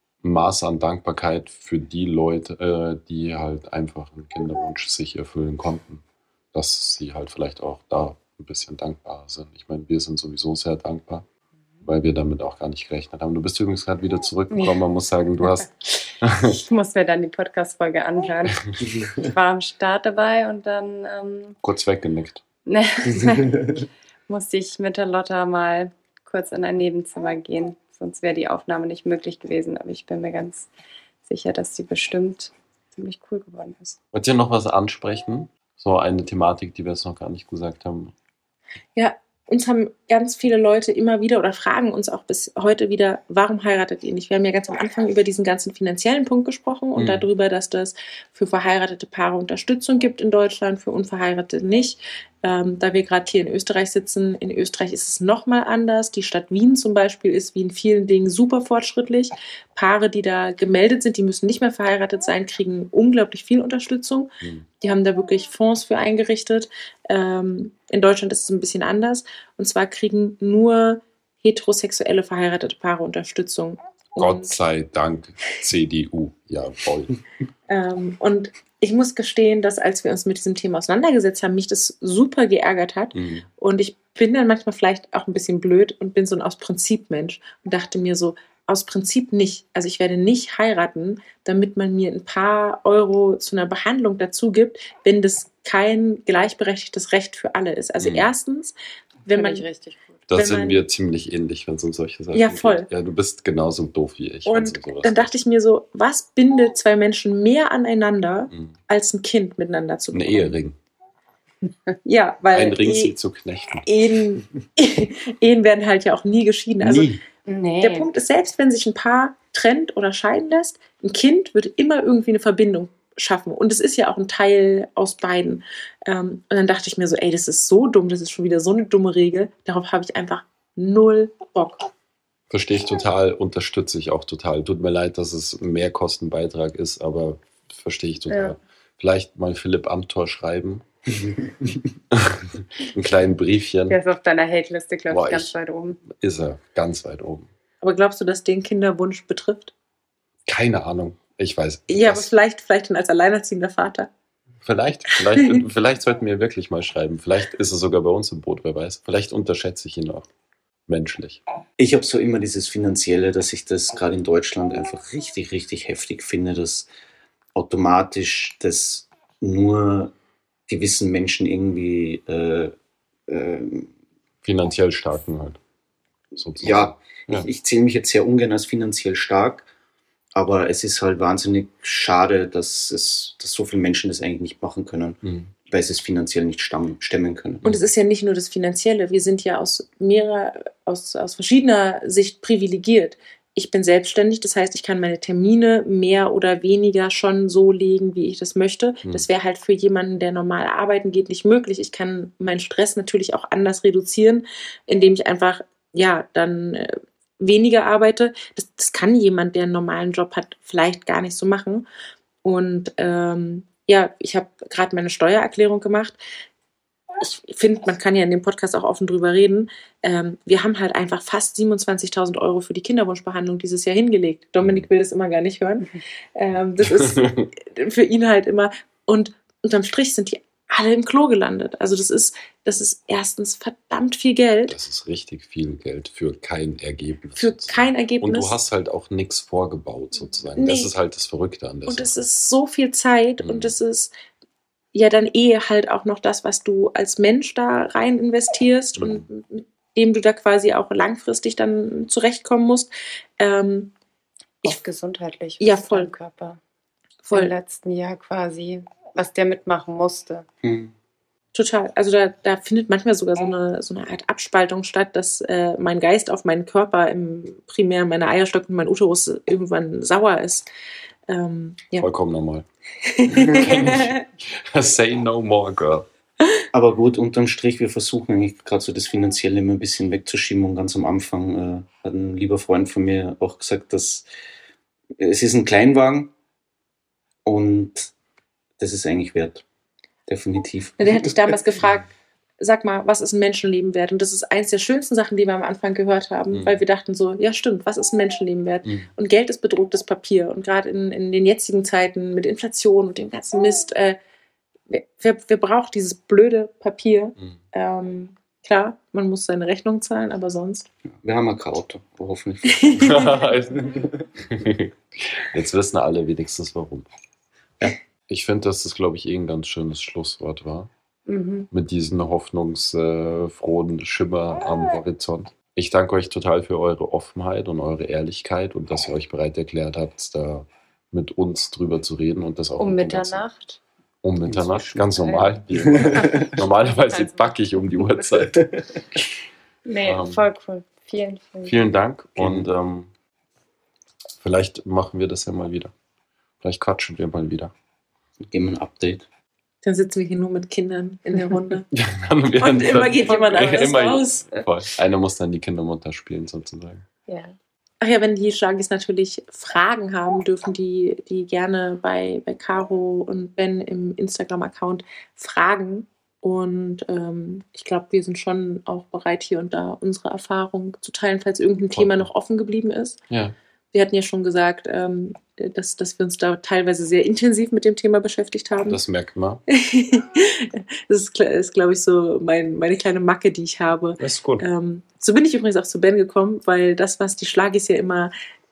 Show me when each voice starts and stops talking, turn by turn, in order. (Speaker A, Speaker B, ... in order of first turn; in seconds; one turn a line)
Speaker A: 0.2-11.3
Speaker A: 11.8-15.7
Speaker B: 14.5-14.8
Speaker A: 16.2-16.6
Speaker B: 16.5-21.6
Speaker A: 21.6-22.4
Speaker B: 22.7-23.6
Speaker B: 24.3-30.7
Speaker B: 31.2-34.0
Speaker A: 34.1-38.1
Speaker C: 39.0-74.6
Speaker A: 47.0-47.3
Speaker A: 74.2-77.1
Speaker C: 77.7-99.7
Speaker A: 83.1-83.5
Speaker A: 98.0-98.3
Speaker B: 99.3-100.2
Speaker A: 100.3-105.3
Speaker C: 100.3-100.8
Speaker C: 102.3-102.9
Speaker C: 104.5-110.6
Speaker A: 110.1-110.8
Speaker C: 112.0-113.2
Speaker A: 112.5-113.9
Speaker C: 113.9-117.1
Speaker D: 116.8-117.2
Speaker B: 117.5-118.1
Speaker C: 117.8-131.8
Speaker A: 132.5-140.8
Speaker B: 138.3-138.6
Speaker A: 142.1-144.0
Speaker B: 143.9-146.0
Speaker A: 145.1-145.5
Speaker A: 146.1-147.5
Speaker C: 147.8-149.7
Speaker A: 150.5-152.3
Speaker C: 151.9-154.1
Speaker A: 154.6-160.3
Speaker C: 155.2-155.6
Speaker A: 160.9-161.4
Speaker D: 161.8-166.9
Speaker D: 167.6-170.1
Speaker D: 170.7-172.8
Speaker D: 173.3-173.9
Speaker A: 174.4-175.6
Speaker A: 176.4-177.5
Speaker D: 176.6-179.7
Speaker D: 180.3-187.7
Speaker A: 185.2-185.5
Speaker C: 187.6-211.9
Speaker C: 212.4-216.2
Speaker C: 217.2-234.8
Speaker A: 226.8-227.5
Speaker A: 234.7-242.1
Speaker C: 237.4-238.6
Speaker C: 240.6-240.9
Speaker C: 241.9-244.1
Speaker A: 243.4-243.8
Speaker C: 244.9-253.9
Speaker A: 249.0-249.3
Speaker B: 254.6-256.6
Speaker C: 255.6-256.1
Speaker C: 257.2-257.5
Speaker B: 257.3-260.4
Speaker D: 260.6-260.9
Speaker C: 261.6-270.7
Speaker C: 271.3-272.1
Speaker A: 272.0-272.7
Speaker C: 273.2-274.2
Speaker D: 273.3-274.0
Speaker A: 273.5-276.1
Speaker D: 276.7-284.3
Speaker D: 285.2-286.3
Speaker D: 287.5-288.1
Speaker D: 288.8-289.6
Speaker D: 290.3-291.6
Speaker C: 291.0-304.2
Speaker A: 296.5-296.8
Speaker A: 298.9-299.1
Speaker C: 304.9-310.9
Speaker D: 311.2-314.3
Speaker C: 312.8-313.3
Speaker A: 313.0-317.1
Speaker A: 317.8-320.9
Speaker B: 321.3-321.7
Speaker A: 321.7-333.4
Speaker B: 332.8-333.8
Speaker A: 334.2-338.6
Speaker D: 334.5-335.1
Speaker B: 335.2-338.4
Speaker D: 335.7-336.6
Speaker D: 338.6-339.0
Speaker B: 339.9-341.9
Speaker A: 340.0-340.5
Speaker A: 341.7-343.1
Speaker D: 342.4-342.7
Speaker A: 344.4-345.9
Speaker A: 346.6-347.7
Speaker D: 348.4-349.3
Speaker C: 349.8-351.9
Speaker A: 351.9-357.1
Speaker C: 352.6-354.5
Speaker B: 353.2-353.9
Speaker B: 357.3-357.6
Speaker C: 358.0-373.2
Speaker A: 371.9-372.3
Speaker A: 373.3-373.6
Speaker C: 373.9-379.0
Speaker A: 378.9-379.6
Speaker C: 379.7-388.3
Speaker A: 384.2-384.6